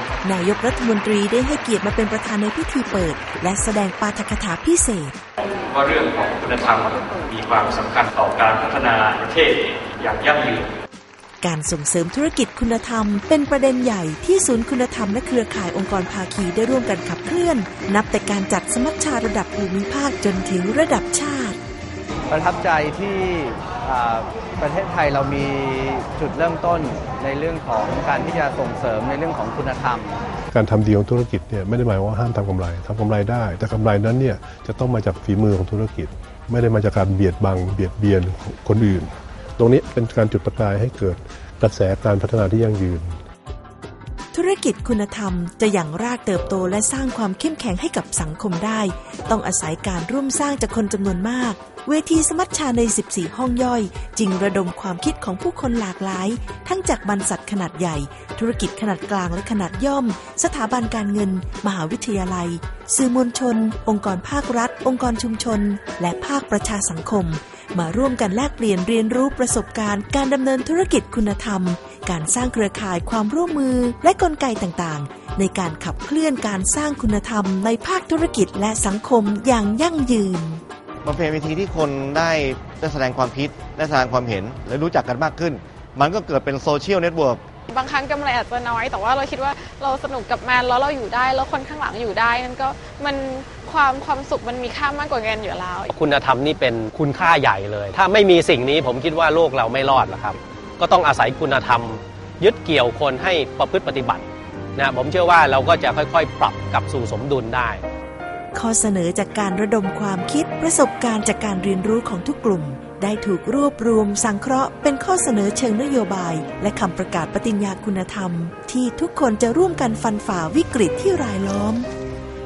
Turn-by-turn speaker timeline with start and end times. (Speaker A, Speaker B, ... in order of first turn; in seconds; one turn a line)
Speaker A: 0.2-5.1
Speaker B: 5.6-10.7
Speaker A: 11.4-21.6
Speaker C: 22.3-30.2
Speaker D: 30.5-43.1
Speaker A: 44.3-80.6
Speaker E: 81.0-87.4
Speaker F: 87.7-95.9
Speaker G: 95.9-107.8
Speaker A: 108.5-121.9